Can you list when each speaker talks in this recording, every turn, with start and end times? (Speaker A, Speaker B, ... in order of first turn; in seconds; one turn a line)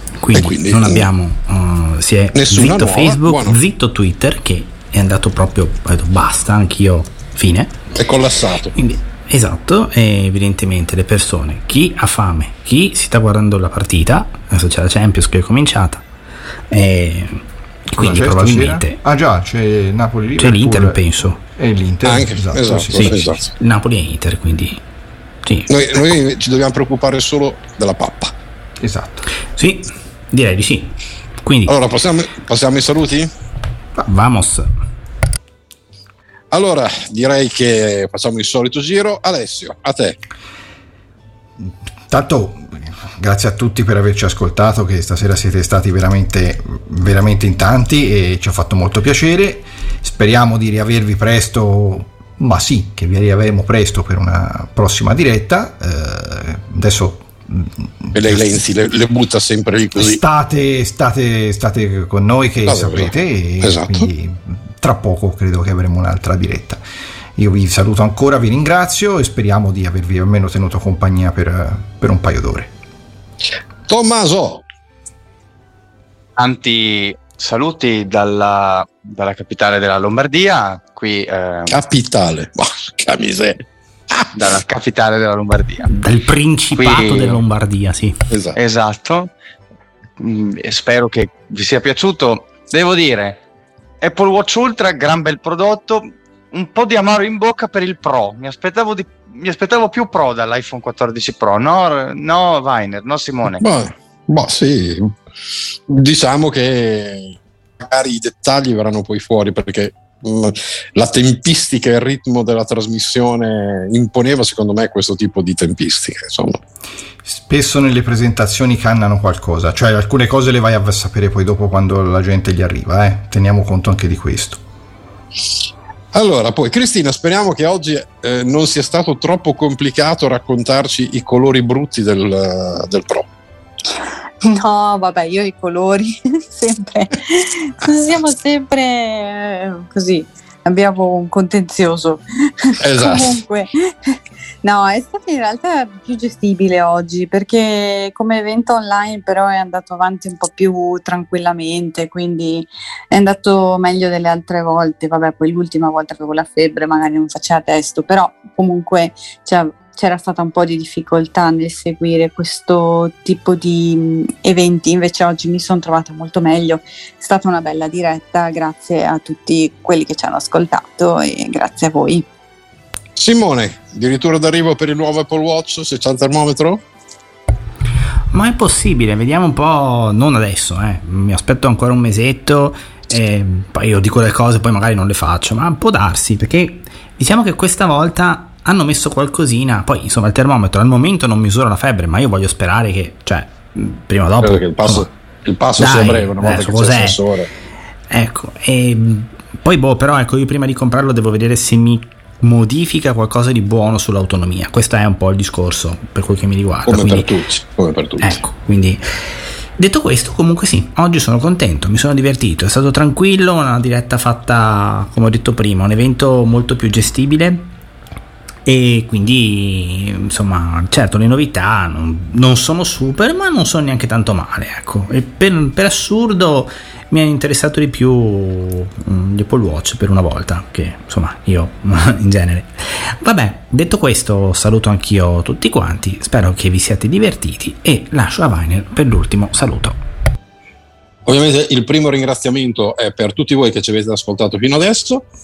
Speaker A: 0.2-7.8
Speaker B: 0.3-1.1
Speaker B: 2.3-3.6
Speaker B: 7.9-8.7
Speaker A: 8.8-16.0
Speaker A: 16.7-19.0
Speaker C: 18.0-23.2
Speaker A: 20.4-21.4
Speaker B: 22.0-23.5
Speaker A: 22.9-24.8
Speaker B: 25.7-28.3
Speaker C: 28.8-29.3
Speaker A: 29.6-31.7
Speaker B: 31.7-33.3
Speaker A: 34.0-34.7
Speaker B: 36.5-40.2
Speaker C: 41.6-58.6
Speaker B: 58.1-60.2
Speaker C: 60.0-66.8
Speaker B: 62.6-64.1
Speaker C: 67.4-72.7
Speaker B: 73.9-74.6
Speaker D: 76.4-81.8
Speaker B: 81.7-84.4
Speaker D: 84.3-85.9
Speaker A: 85.9-88.2
Speaker D: 86.8-87.4
Speaker B: 88.3-88.6
Speaker D: 88.6-89.3
Speaker D: 90.2-93.4
Speaker D: 94.0-103.7
Speaker B: 103.5-105.2
Speaker B: 105.9-116.6
Speaker C: 117.3-124.6
Speaker B: 126.1-133.3
Speaker E: 134.4-172.3
Speaker B: 142.8-143.4
Speaker B: 173.2-176.8
Speaker A: 178.3-195.1
Speaker B: 194.4-197.5
Speaker A: 195.8-197.2
Speaker A: 198.1-207.3
Speaker B: 206.9-208.4
Speaker A: 208.2-217.7
Speaker A: 218.7-240.0
Speaker B: 241.3-245.3